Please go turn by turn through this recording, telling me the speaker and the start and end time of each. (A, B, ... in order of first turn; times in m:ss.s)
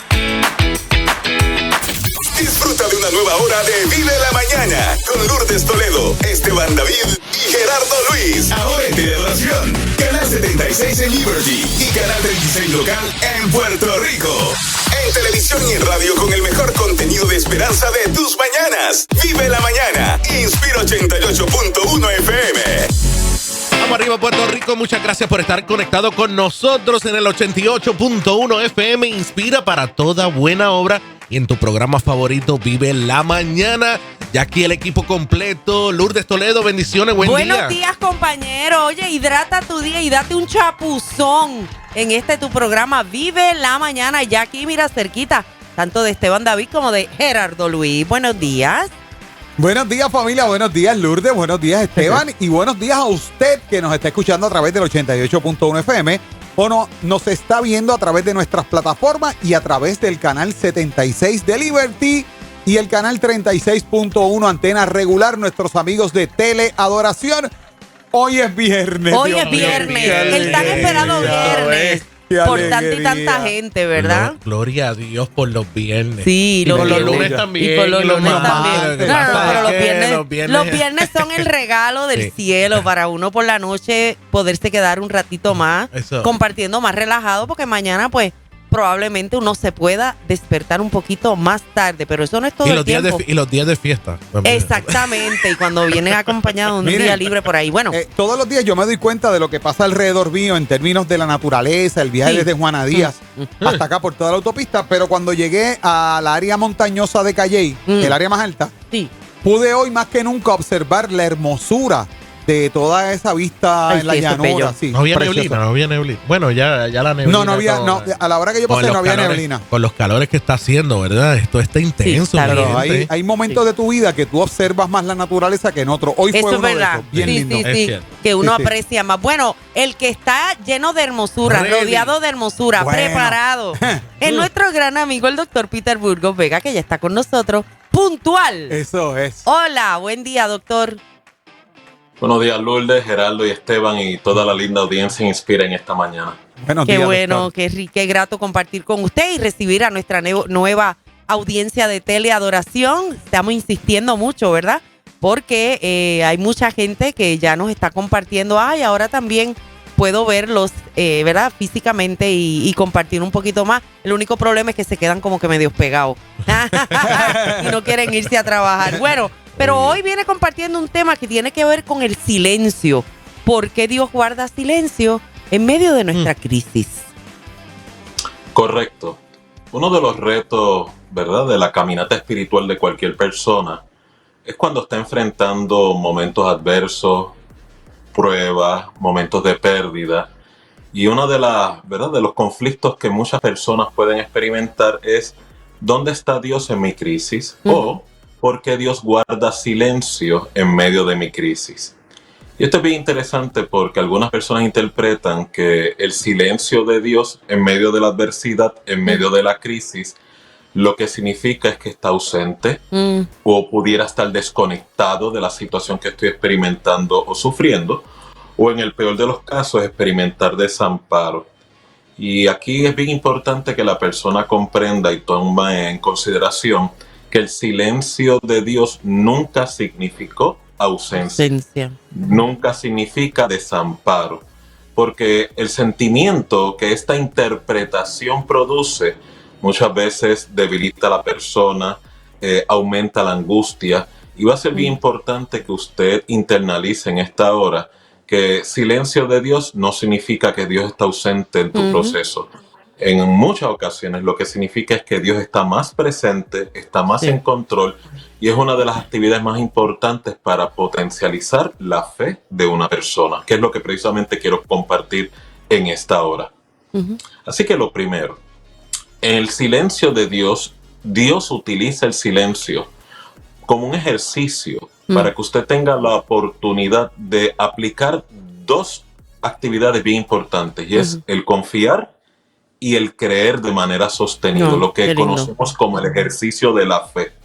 0:02.2-0:22.9 A
0:23.8-0:37.8 B
0:37.2-0:48.9 C
0:49.6-1:07.5 D
0:52.0-0:52.2 C
1:08.1-1:13.5 D
1:09.1-1:14.4 C
1:09.5-1:12.0 B
1:13.9-1:21.5 B
1:16.2-1:33.2 C
1:16.6-1:17.5 D
1:18.2-1:19.8 D
1:22.1-1:22.8 B
1:25.9-1:26.3 B
1:32.6-1:35.3 B
1:34.4-1:38.0 C
1:35.9-1:36.5 B
1:36.8-1:37.2 D
1:37.9-1:48.7 D
1:42.2-1:43.5 C
1:47.9-1:48.2 C
1:49.4-1:55.6 D
1:53.9-1:54.8 C
1:54.9-1:58.1 B
1:57.2-1:59.6 D
1:58.7-2:03.1 B
2:02.0-2:02.8 C
2:02.5-2:07.6 D
2:06.3-2:18.8 C
2:07.1-2:08.1 B
2:08.4-2:08.7 D
2:11.4-2:12.1 B
2:12.8-2:14.0 D
2:18.7-2:19.5 D
2:19.4-2:21.0 C
2:22.2-2:26.4 E
2:26.6-2:27.5 D
2:26.8-2:57.1 C
2:47.0-2:47.6 D
2:49.6-2:50.0 B
2:58.5-2:59.2 E
2:59.7-3:03.8 E
3:04.4-3:07.4 E
3:08.1-3:10.3 E
3:10.9-3:22.0 E
3:22.6-3:30.2 E
3:30.7-3:32.8 E
3:32.9-3:33.3 C
3:33.4-3:38.0 E
3:38.6-3:41.5 E
3:42.2-3:51.5 E
3:51.2-3:52.0 C
3:52.1-4:26.5 E
4:11.7-4:12.1 C
4:26.9-4:27.2 C
4:27.4-4:28.4 E
4:29.2-4:32.9 E
4:33.6-4:42.1 E
4:40.9-4:41.2 C
4:42.8-4:47.4 E
4:44.5-4:45.5 C